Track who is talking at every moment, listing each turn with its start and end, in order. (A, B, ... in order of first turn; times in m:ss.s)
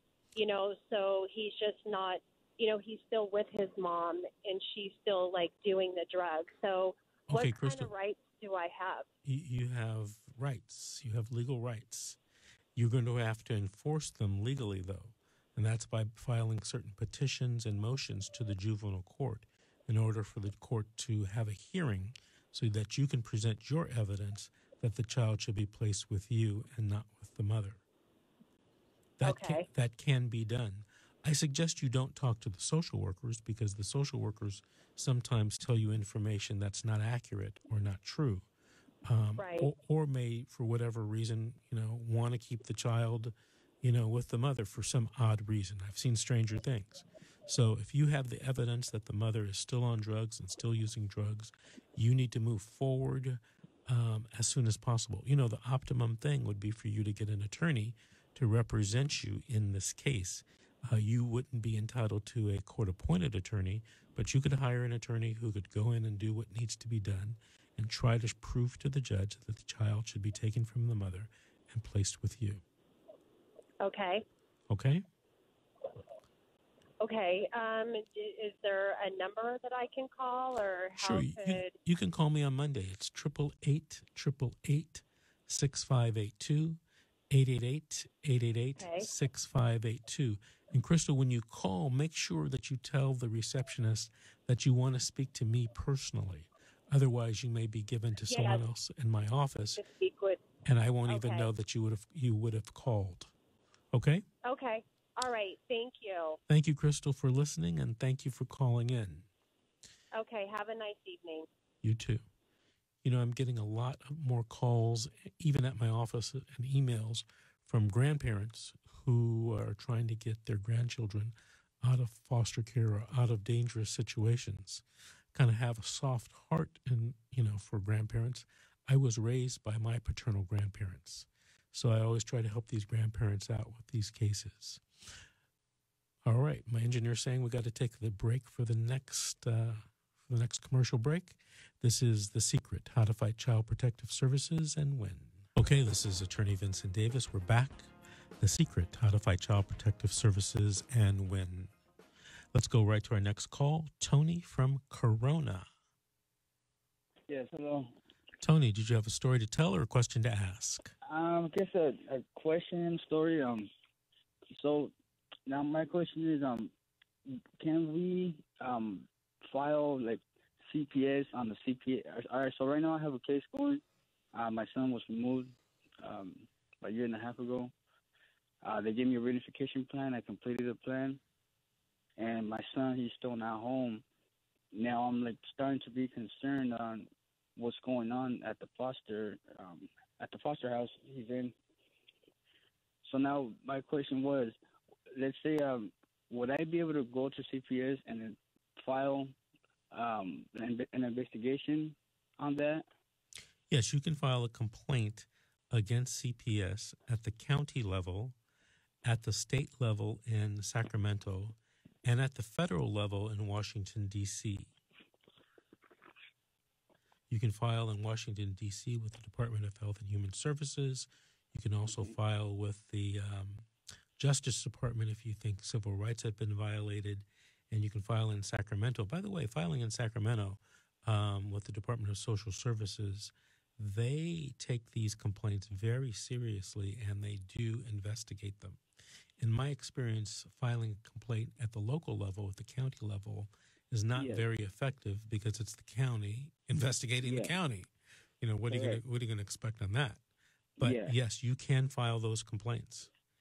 0:00.4-0:09.1 A
0:07.3-0:07.9 B
0:09.2-0:12.2 B
0:12.8-0:27.8 B
0:29.2-0:38.5 B
0:29.2-0:29.7 A
0:39.1-1:12.6 B
0:39.4-0:39.7 A
1:13.8-1:14.2 A
1:14.7-1:15.0 B
1:17.0-1:21.8 A
1:21.0-1:26.8 B
1:27.3-1:39.8 B
1:28.8-1:29.1 A
1:38.3-1:38.6 A
1:39.8-1:40.4 A
1:40.6-1:43.3 B
1:41.1-1:41.5 A
1:43.9-1:44.2 B
1:44.4-1:46.4 A
1:46.5-1:49.3 B
1:50.2-1:51.5 A
1:51.8-1:52.2 B
1:53.0-2:04.8 B
2:05.3-2:14.8 B
2:16.2-2:31.7 B
2:32.5-2:35.7 B
2:37.3-2:37.9 C
2:38.4-2:40.9 B
2:41.0-2:43.7 C
2:44.5-2:44.9 C
2:45.5-2:46.7 C
2:47.6-2:53.8 C
2:54.3-2:57.7 C
2:58.6-3:01.2 C
3:02.2-3:04.0 C
3:04.7-3:11.5 C
3:13.0-3:14.6 C
3:15.2-3:19.4 C
3:19.9-3:22.9 C
3:23.7-3:28.4 B
3:29.0-3:34.7 B
3:37.3-3:43.7 B
3:44.2-3:58.8 B
3:59.4-4:10.2 B
4:04.2-4:04.4 C
4:07.2-4:07.5 C
4:08.7-4:09.0 C
4:10.8-4:11.2 C
4:10.8-4:13.1 B